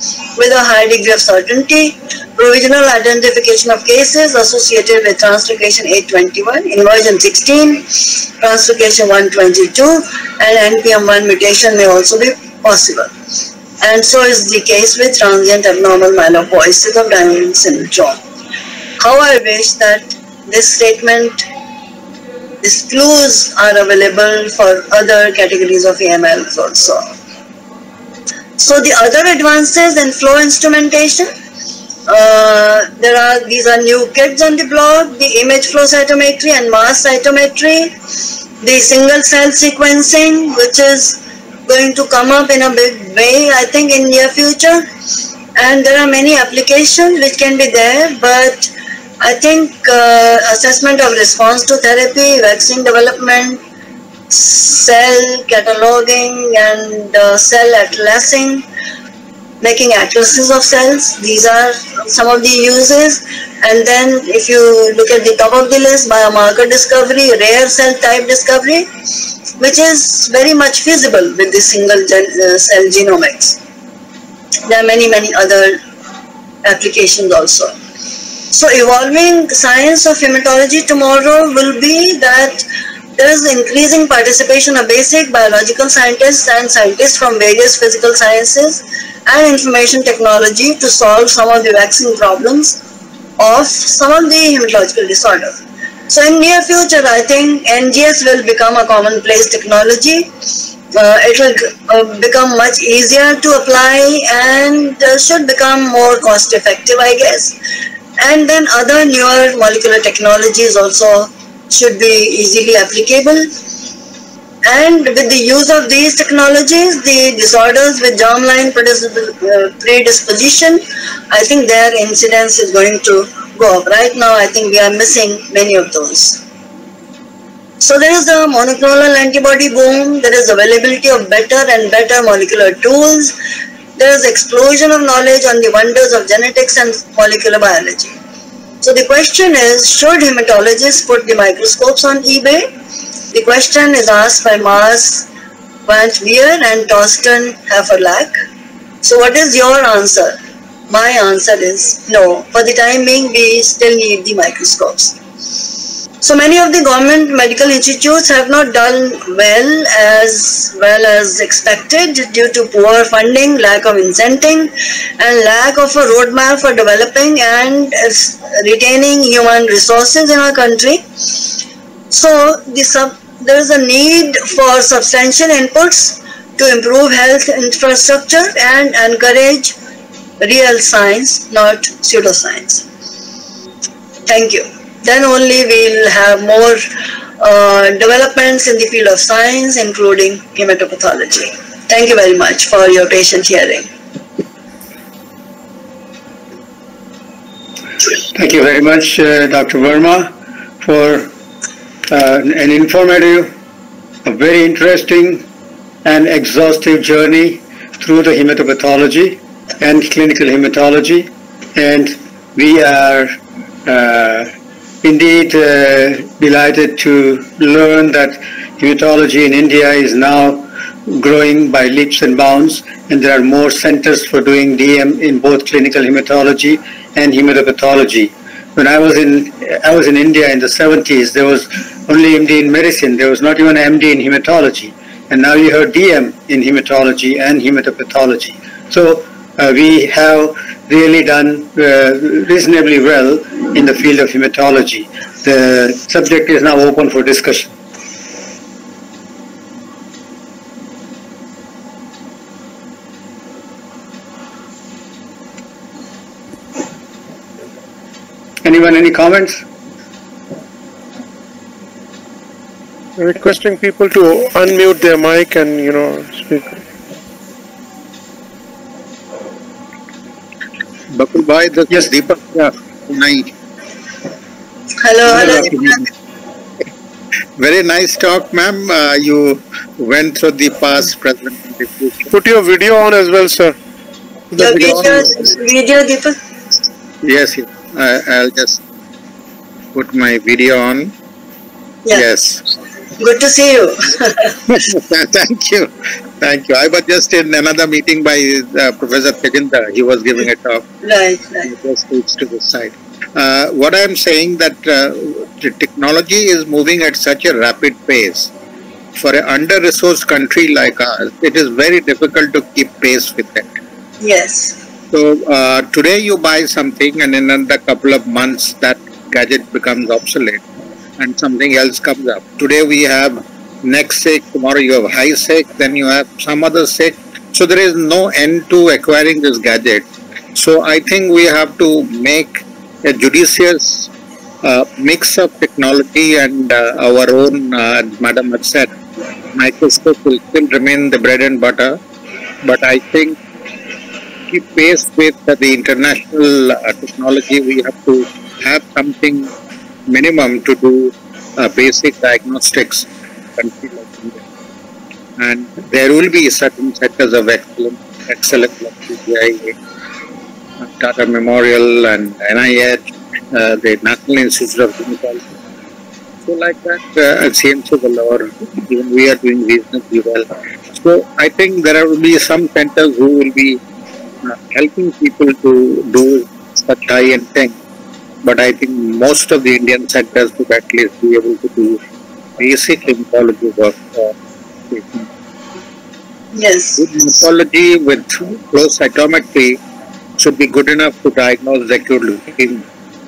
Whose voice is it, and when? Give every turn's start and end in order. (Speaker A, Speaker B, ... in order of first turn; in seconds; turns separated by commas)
Speaker A: 0.3-13.1, Speaker A: 13.8-18.2, Speaker A: 19.0-21.4, Speaker A: 22.6-27.1, Speaker A: 28.6-31.3, Speaker A: 32.1-37.9, Speaker A: 38.6-44.9, Speaker A: 45.5-53.6, Speaker A: 54.3-58.6, Speaker A: 59.6-68.9, Speaker A: 69.6-73.6, Speaker A: 74.7-75.8, Speaker A: 76.6-77.7, Speaker A: 78.5-82.7, Speaker A: 83.2-92.8, Speaker A: 93.4-100.3, Speaker A: 100.9-107.5, Speaker A: 108.2-113.5, Speaker A: 114.7-126.4, Speaker A: 127.8-133.3, Speaker A: 134.0-138.1, Speaker A: 138.8-142.7, Speaker A: 143.3-145.3, Speaker A: 145.9-148.4, Speaker A: 149.0-150.4, Speaker A: 150.9-155.2, Speaker A: 156.2-171.5, Speaker A: 172.1-179.7, Speaker A: 180.4-182.8, Speaker A: 184.3-186.8, Speaker A: 187.4-193.9, Speaker B: 198.3-201.3, Speaker B: 202.1-203.5, Speaker B: 204.2-205.5, Speaker B: 206.0-213.3, Speaker B: 213.8-214.5, Speaker B: 215.0-247.8, Speaker B: 258.6-259.6, Speaker C: 263.2-266.8, Speaker D: 271.1-273.5, Speaker A: 275.0-276.0, Speaker D: 275.3-275.9, Speaker D: 277.6-282.3, Speaker C: 282.3-283.8, Speaker C: 284.5-285.3, Speaker A: 284.6-286.4, Speaker D: 287.2-288.8, Speaker D: 289.9-291.1, Speaker D: 292.1-292.6, Speaker A: 293.2-294.6, Speaker D: 294.7-300.9, Speaker A: 301.0-301.7, Speaker D: 301.6-308.5, Speaker D: 309.1-313.7, Speaker A: 314.2-314.8, Speaker D: 315.1-320.6, Speaker D: 321.2-334.1, Speaker D: 334.6-338.9, Speaker D: 339.5-342.0, Speaker D: 342.6-343.4, Speaker D: 344.5-349.5, Speaker D: 350.1-354.4, Speaker D: 355.4-359.7, Speaker D: 360.8-365.5, Speaker D: 366.4-373.8, Speaker D: 374.4-377.8, Speaker D: 378.4-382.0, Speaker D: 382.6-384.4, Speaker D: 384.9-385.3, Speaker A: 386.5-387.0, Speaker D: 387.0-389.8, Speaker D: 390.4-392.8